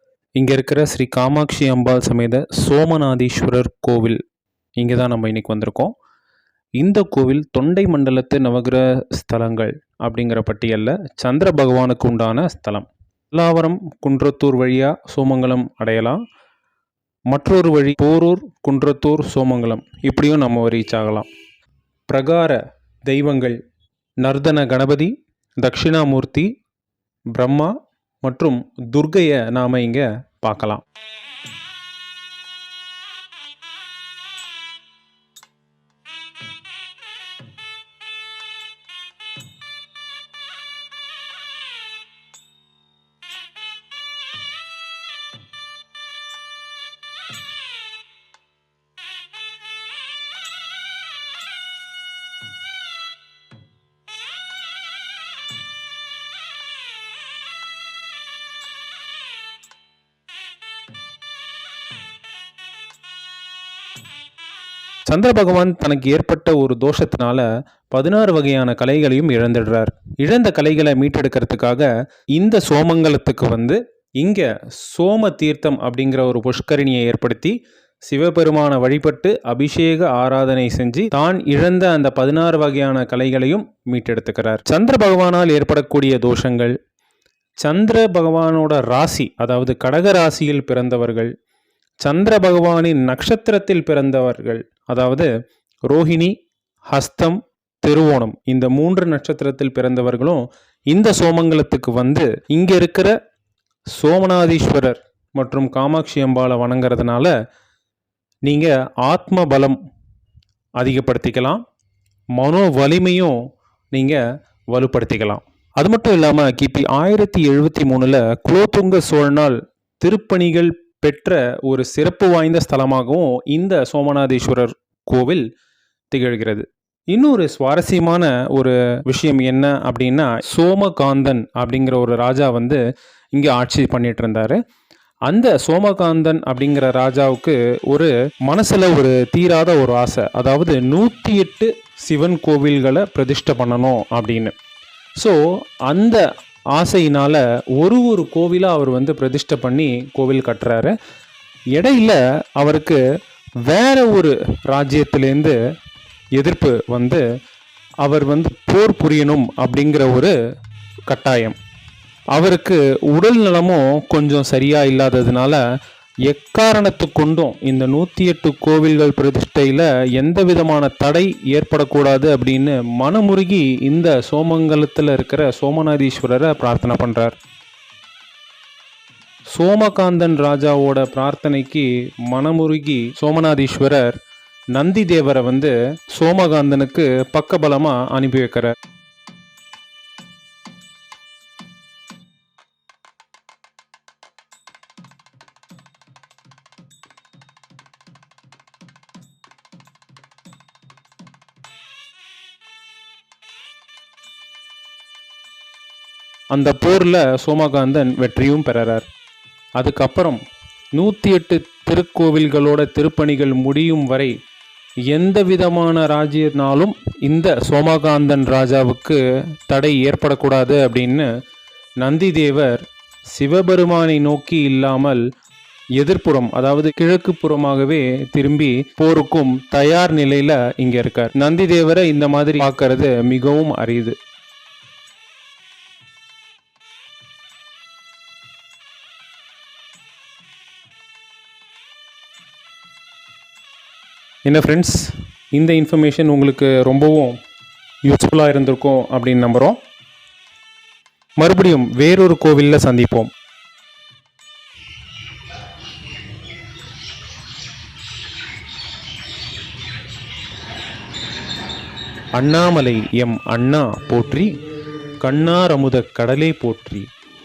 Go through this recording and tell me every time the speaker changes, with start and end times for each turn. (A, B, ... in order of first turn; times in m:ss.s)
0:00.4-0:04.2 A
0:04.8-0:05.9 A
0:06.8-0:16.2 A
0:17.3-0:21.3 A
0:22.1-0:23.6 A
0:24.2-0:26.5 A
0:27.3-0:30.8 A
1:05.1-1:17.5 A
1:18.1-1:26.7 A
1:27.6-1:31.3 A
1:32.0-1:35.3 A
1:35.9-1:36.3 A
1:36.9-1:43.1 A
1:43.9-1:47.3 A
1:48.4-1:49.8 A
1:50.8-1:51.6 A
1:52.4-1:53.4 A
1:53.9-2:05.4 A
2:06.1-2:12.8 A
2:13.3-2:14.6 A
2:15.3-2:24.5 A
2:25.2-2:30.9 A
2:31.7-2:33.0 A
2:33.6-2:35.6 A
2:36.4-2:37.2 A
2:38.0-2:40.3 A
2:41.1-2:41.6 A
2:42.3-2:45.6 A
2:46.3-2:57.3 A
2:59.5-3:04.1 A
3:04.7-3:08.7 A
3:26.5-3:29.0 A
3:29.8-3:30.4 A
3:30.9-3:34.3 A
3:35.1-3:41.3 A
3:42.0-3:42.8 A
3:43.3-3:45.2 A
3:46.0-3:54.2 A
4:04.5-4:07.4 A
4:08.0-4:09.8 A
4:11.4-4:13.3 A
4:22.4-4:27.1 A